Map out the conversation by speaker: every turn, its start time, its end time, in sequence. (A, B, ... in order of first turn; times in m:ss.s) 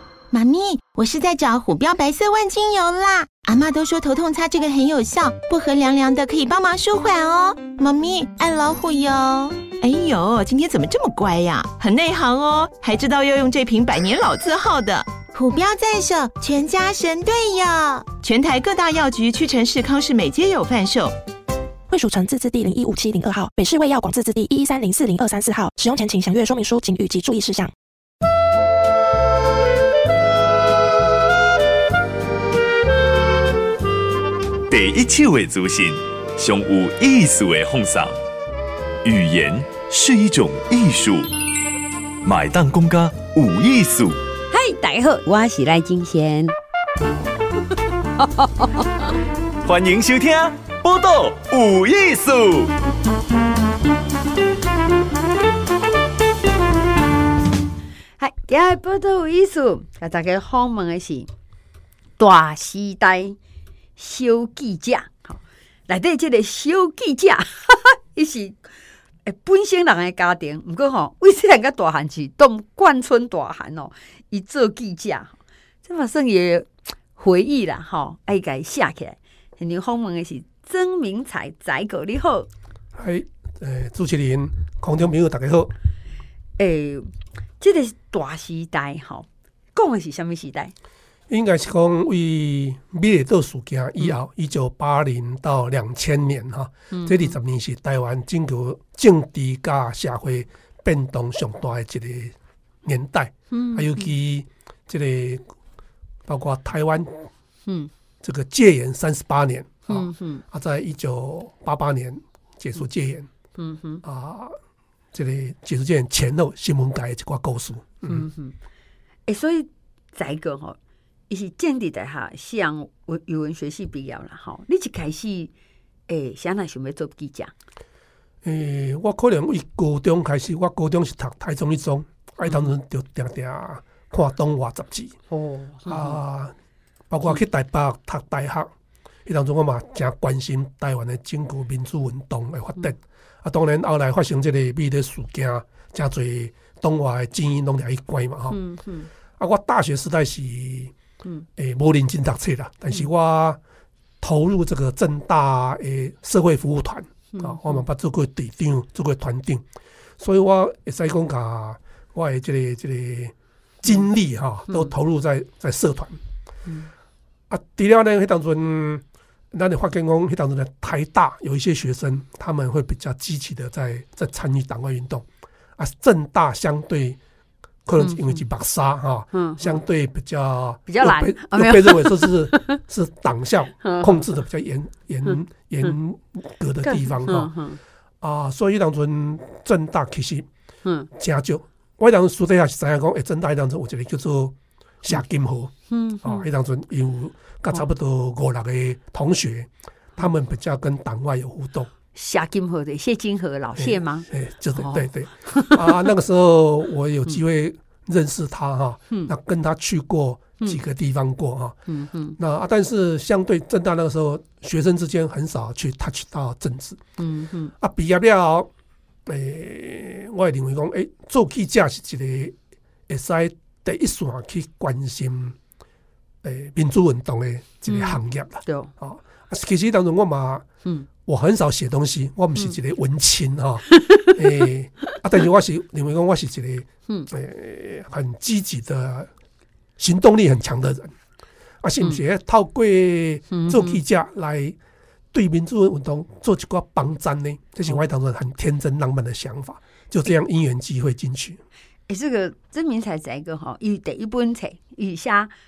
0:00.3-0:09.6 A
0:09.8-0:15.2 B
0:15.3-0:18.1 A
0:18.1-0:21.2 B
0:21.9-0:27.7 C
0:34.7-0:38.1 D
0:39.0-0:41.3 D
0:42.2-0:44.2 D
0:44.5-0:46.5 E
0:48.2-0:49.0 E
0:49.6-0:52.7 D
0:58.2-1:01.3 E
1:02.2-1:03.4 E
1:04.0-1:08.6 E
1:09.2-1:22.5 E
1:22.9-1:25.7 F
1:26.6-1:27.1 E
1:27.6-1:30.7 E
1:31.3-1:45.4 F
1:36.9-1:37.4 E
1:43.5-1:44.1 E
1:46.3-1:47.3 F
1:48.2-1:53.3 F
1:49.9-1:50.4 E
1:53.6-1:54.0 E
1:54.0-1:54.6 F
1:55.1-1:58.3 F
1:58.0-1:58.6 E
1:59.3-2:00.8 E
2:01.3-2:05.5 E
2:06.1-2:07.5 E
2:08.4-2:15.2 F
2:12.4-2:12.7 E
2:15.3-2:16.2 E
2:15.9-2:16.5 F
2:17.1-2:18.7 F
2:19.3-2:28.6 F
2:28.5-2:29.1 E
2:29.4-2:30.9 F
2:31.6-2:33.6 F
2:34.2-2:39.6 F
2:37.3-2:37.8 E
2:40.2-2:46.2 F
2:47.5-2:55.3 F
2:55.8-2:57.2 F
2:57.9-3:07.5 F
2:58.0-2:58.4 E
2:59.3-2:59.8 E
3:00.9-3:02.8 E
3:03.8-3:04.3 E
3:06.8-3:07.8 E
3:08.2-3:10.5 F
3:11.2-3:21.9 F
3:15.9-3:16.4 E
3:22.1-3:26.1 E
3:23.8-3:31.8 F
3:31.9-3:32.4 E
3:32.4-3:37.0 F
3:37.2-3:37.7 E
3:37.8-3:38.7 F
3:39.3-3:42.6 F
3:43.1-3:45.6 F
3:46.4-3:50.7 F
3:47.9-3:48.9 E
3:51.2-3:59.3 F
3:53.9-3:54.3 E
4:00.0-4:01.2 F
4:01.8-4:04.8 F
4:03.5-4:04.0 E
4:05.3-4:11.6 F
4:12.1-4:15.5 E